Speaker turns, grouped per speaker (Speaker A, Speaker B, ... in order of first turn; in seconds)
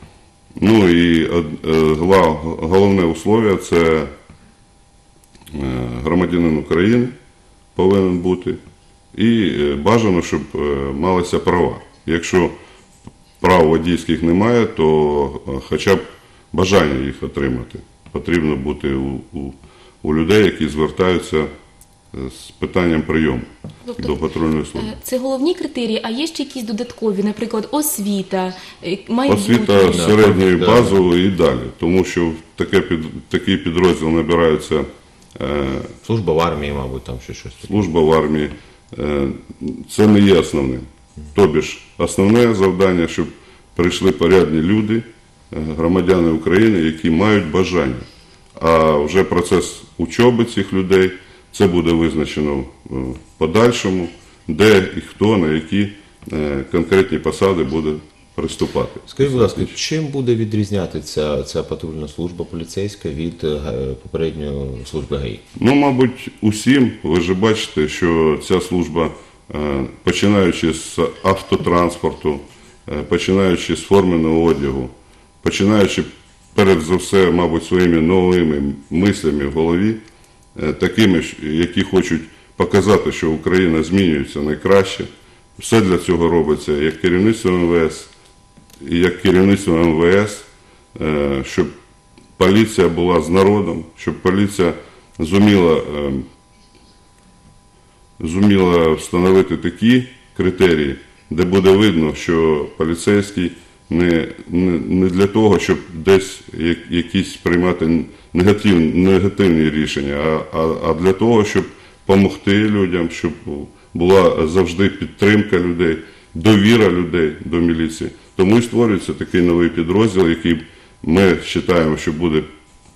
Speaker A: 0.6-4.1, 5.5-7.1, 7.8-8.6, 9.1-12.5, 13.4-16.0, 16.5-21.5, 22.1-24.9, 29.3-34.9, 35.4-35.9, 37.6-59.7, 65.5-80.0, 80.5-88.1, 88.8-91.7, 92.4-96.2, 98.2-122.5
Speaker B: 23.9-24.1, 24.7-30.1
Speaker C: 29.9-31.0, 36.0-37.9, 59.1-65.4